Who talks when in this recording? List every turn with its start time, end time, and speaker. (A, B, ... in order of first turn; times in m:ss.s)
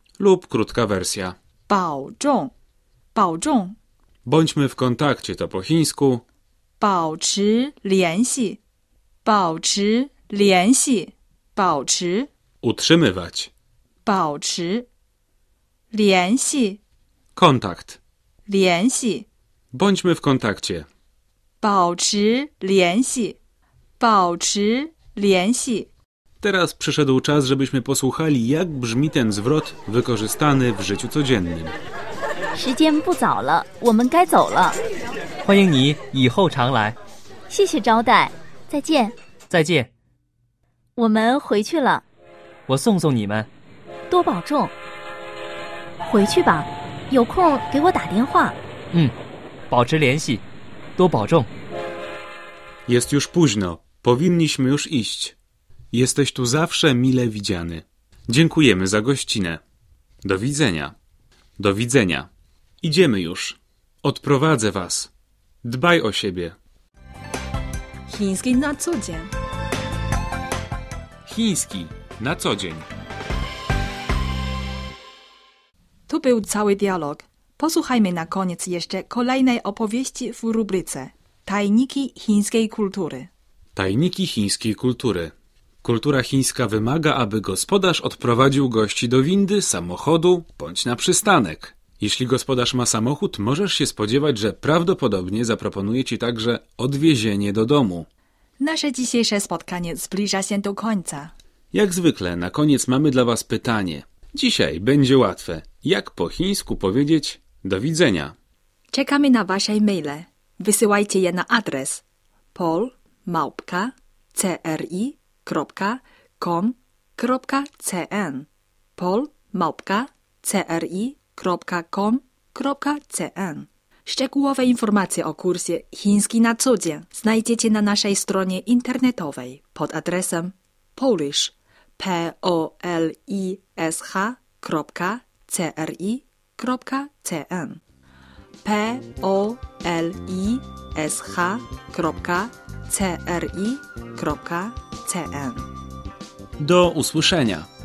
0:00.2-0:01.4 A
0:01.7-0:02.5 B
0:03.1-0:03.8 B
0:04.2-0:06.2 A
0:06.8-0:08.6 B
0:09.2-0:12.3 B
0:12.6-0:13.5 A
0:14.0-0:14.9 B
0:15.9-0:16.8 B
0:17.4-0:18.0 A
0:18.5-0:19.3 B
0:19.7-0:20.9 A
0:21.6-0:23.4 B
0:24.0-0:25.9 B
0:26.4-0:31.8 A
0:32.6-0:34.8 C
0:35.4-0:37.0 D
0:37.5-0:39.2 C
0:39.5-0:39.9 D
0:41.0-0:42.0 C
0:42.7-0:43.5 D
0:44.1-0:44.7 C
0:46.0-0:48.6 C
0:49.7-0:50.4 D
0:51.0-0:51.5 D
0:52.9-0:55.4 A
0:55.9-0:59.6 A
1:00.2-1:01.0 A
1:01.6-1:02.3 A
1:02.8-1:05.1 A
1:05.6-1:06.6 A
1:08.1-1:09.3 B
1:11.3-1:12.9 A
1:16.1-1:23.3 B
1:23.8-1:25.3 A
1:25.8-1:38.1 A
1:38.6-1:41.3 B
1:41.7-1:48.4 A
1:48.9-1:52.0 B
1:52.5-2:17.8 B
2:18.6-2:25.7 B
2:26.6-2:27.7 A